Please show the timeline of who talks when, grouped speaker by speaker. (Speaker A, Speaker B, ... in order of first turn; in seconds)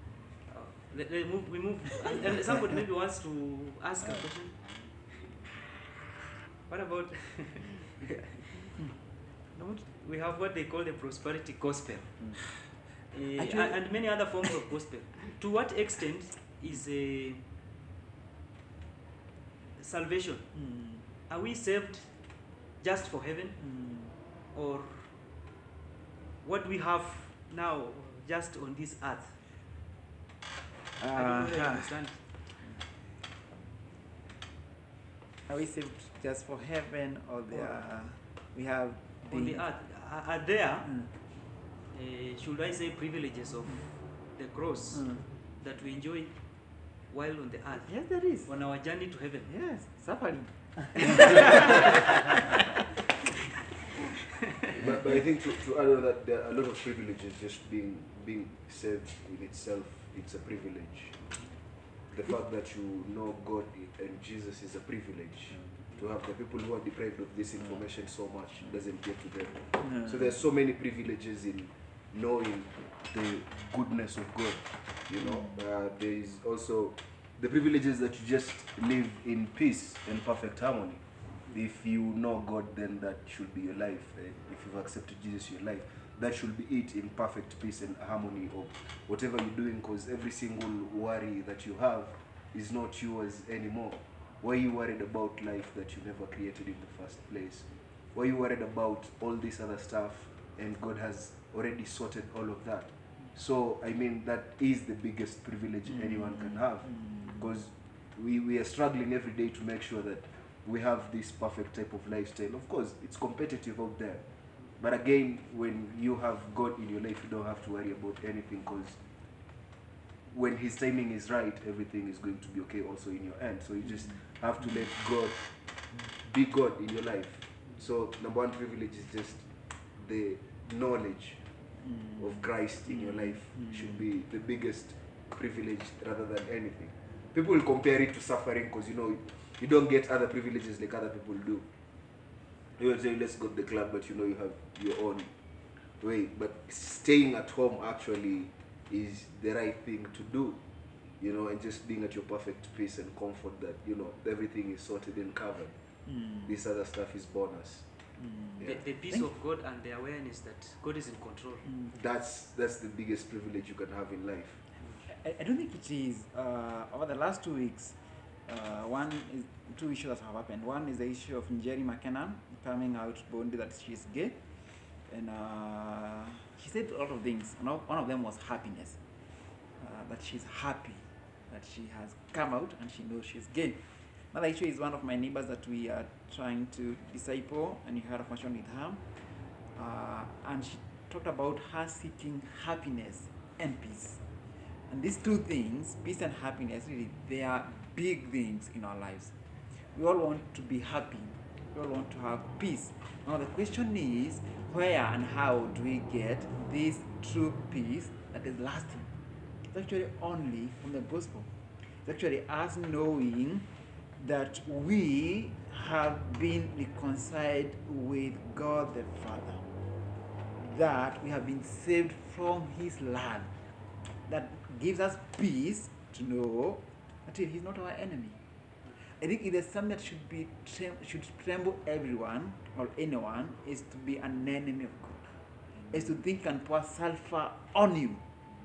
Speaker A: 0.5-5.2, 6.7-8.8, 9.5-12.6, 13.1-17.4, 19.8-20.6, 21.3-23.7, 24.5-25.4, 26.4-29.4, 31.1-32.3, 39.3-41.1, 41.9-49.5, 51.0-52.0, 158.6-161.8
Speaker B: 13.4-14.2, 20.6-21.0, 23.6-24.1, 31.0-32.0, 35.5-39.6, 40.8-41.1, 44.9-45.3, 47.9-48.5, 49.4-52.5, 69.8-70.3, 75.2-75.6, 105.9-107.5, 132.9-134.0, 156.1-156.5, 158.2-159.3, 165.1-174.4, 175.1-179.0, 179.8-189.0, 189.8-194.2, 194.9-199.3, 199.9-209.1, 209.7-211.5, 212.0-219.6, 220.6-223.6, 224.3-228.4, 229.2-235.3, 235.9-238.2
Speaker C: 54.7-61.3, 62.1-114.2, 114.8-119.0, 120.3-125.5, 126.2-131.4, 132.2-141.7, 142.8-145.3, 146.0-150.6, 151.2-155.8, 156.4-157.9, 161.9-164.6